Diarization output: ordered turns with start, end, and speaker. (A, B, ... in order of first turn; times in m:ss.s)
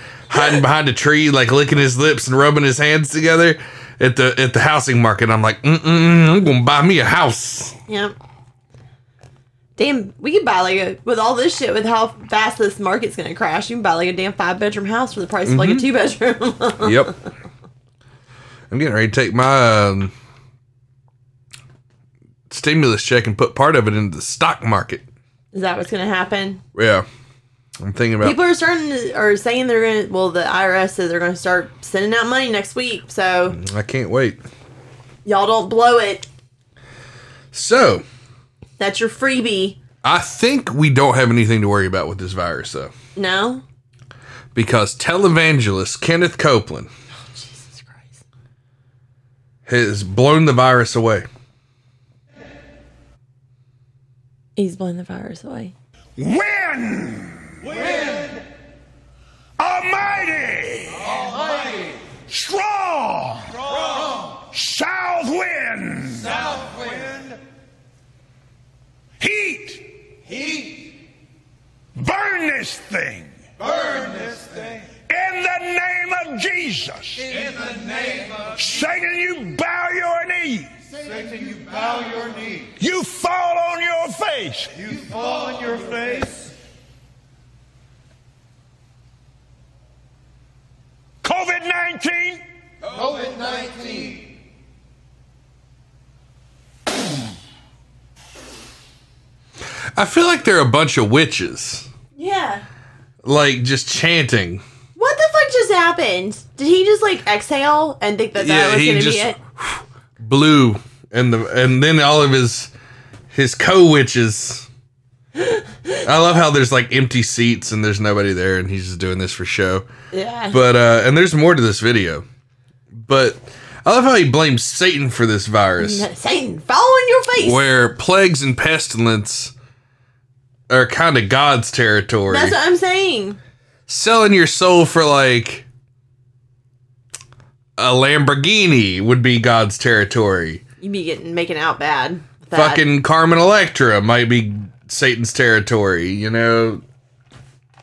0:00.3-0:07.7 A
0:00.3-0:00.6 B
0:07.9-0:08.1 B
0:09.8-0:17.1 B
0:15.4-0:15.9 A
0:16.8-0:17.1 A
0:18.7-0:20.1 A
0:22.5-0:25.0 A
0:25.5-0:26.6 B
0:26.7-0:27.0 A
0:27.8-0:28.4 A
0:28.2-0:33.6 B
0:33.5-0:34.4 A
0:35.2-0:36.3 B
0:37.5-0:38.0 A
0:38.8-0:39.8 B
0:40.0-0:42.9 A
0:43.2-0:43.6 B
0:44.5-0:46.9 A
0:47.2-0:48.2 B
0:49.7-0:51.3 A
0:54.6-0:55.7 B
0:56.2-0:57.9 C
0:59.6-1:01.3 C
1:02.3-1:03.6 C
1:04.4-1:06.6 C
1:09.2-1:10.7 C
1:12.0-1:13.4 C
1:15.1-1:20.7 C
1:22.8-1:24.9 C
1:31.2-1:32.4 C
1:40.0-1:41.9 A
1:42.2-1:42.6 B
1:43.2-1:44.6 A
1:45.0-1:49.4 B
1:48.4-1:52.7 A
1:53.3-1:54.7 A
1:55.4-1:56.0 B
1:56.0-1:59.8 A
2:00.1-2:00.6 B
2:00.5-2:02.2 A
2:02.9-2:06.1 A
2:05.8-2:07.6 B
2:07.4-2:09.5 A
2:10.7-2:12.6 A
2:12.3-2:13.4 B
2:13.9-2:15.6 A
2:17.8-2:20.6 A
2:20.8-2:22.8 B
2:22.5-2:26.8 A